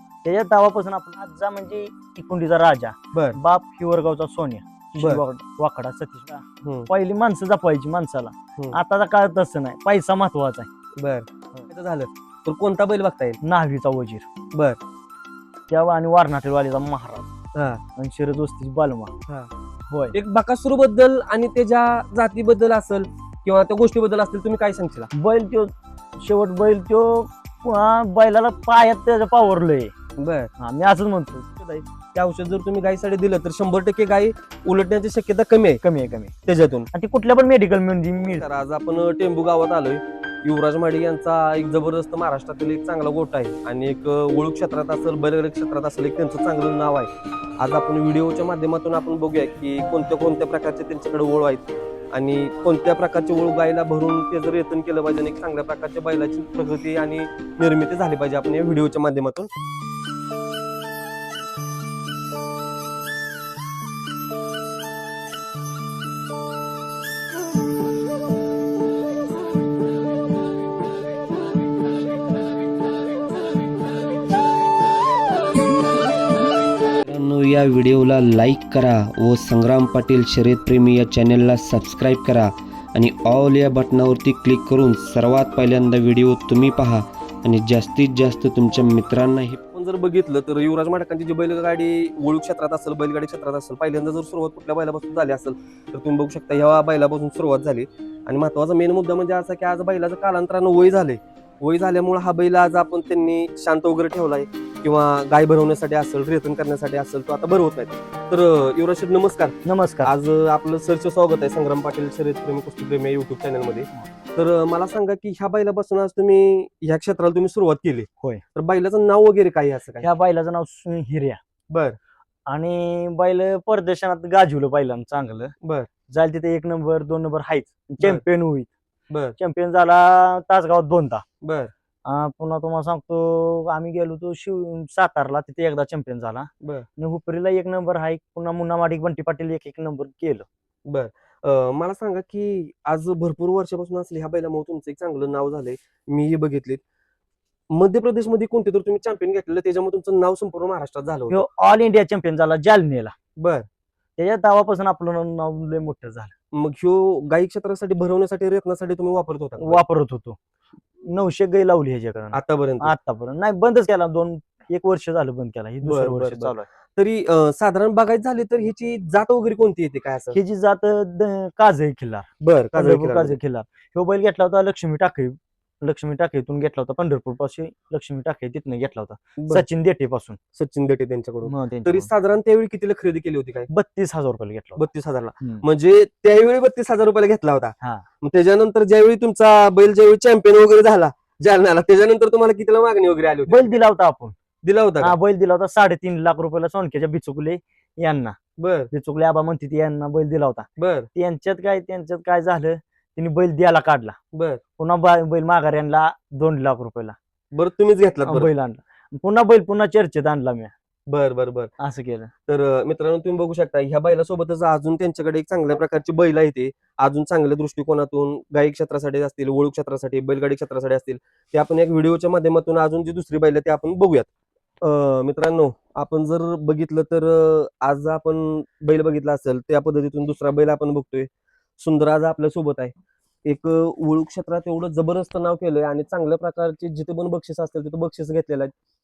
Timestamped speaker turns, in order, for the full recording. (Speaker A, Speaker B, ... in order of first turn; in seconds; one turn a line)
Speaker A: 0.2-10.7
Speaker B: 6.6-6.9
Speaker B: 11.0-13.4
Speaker A: 13.4-14.2
Speaker B: 14.5-14.8
Speaker A: 15.7-17.3
Speaker B: 17.5-17.8
Speaker A: 18.0-19.1
Speaker A: 19.9-20.1
Speaker B: 20.1-25.1
Speaker A: 25.1-29.9
Speaker B: 30.2-30.5
Speaker A: 30.6-31.5
Speaker B: 31.6-35.8
Speaker A: 35.8-36.3
Speaker B: 36.5-36.9
Speaker A: 36.9-38.4
Speaker B: 38.4-59.5
Speaker C: 77.0-89.6
Speaker B: 89.7-120.1
Speaker A: 109.6-110.1
Speaker A: 120.0-121.4
Speaker B: 121.7-122.0
Speaker A: 122.5-125.5
Speaker B: 125.6-125.9
Speaker A: 126.1-128.7
Speaker B: 129.1-129.3
Speaker A: 129.4-131.2
Speaker B: 131.4-131.7
Speaker A: 132.0-140.4
Speaker B: 140.9-146.8
Speaker B: 147.7-151.4
Speaker A: 151.3-153.1
Speaker B: 153.4-153.7
Speaker A: 154.2-156.3
Speaker B: 156.5-159.8
Speaker A: 159.6-160.4
Speaker A: 161.1-166.7
Speaker B: 162.3-162.9
Speaker B: 165.8-170.3
Speaker A: 170.3-180.4
Speaker B: 172.4-173.4
Speaker B: 179.4-179.7
Speaker B: 180.6-183.7
Speaker A: 181.5-182.1
Speaker A: 183.7-184.8
Speaker B: 184.8-193.8
Speaker A: 193.5-194.3
Speaker B: 194.6-195.2
Speaker A: 195.0-198.3
Speaker B: 198.6-198.9
Speaker A: 198.9-204.2
Speaker B: 200.8-201.1
Speaker B: 204.3-204.6
Speaker A: 204.8-207.2
Speaker B: 207.5-208.5
Speaker A: 208.2-210.7
Speaker B: 211.1-211.7
Speaker A: 211.8-212.3
Speaker B: 212.5-224.3
Speaker B: 224.8-231.3
Speaker B: 231.8-232.9
Speaker B: 233.4-238.7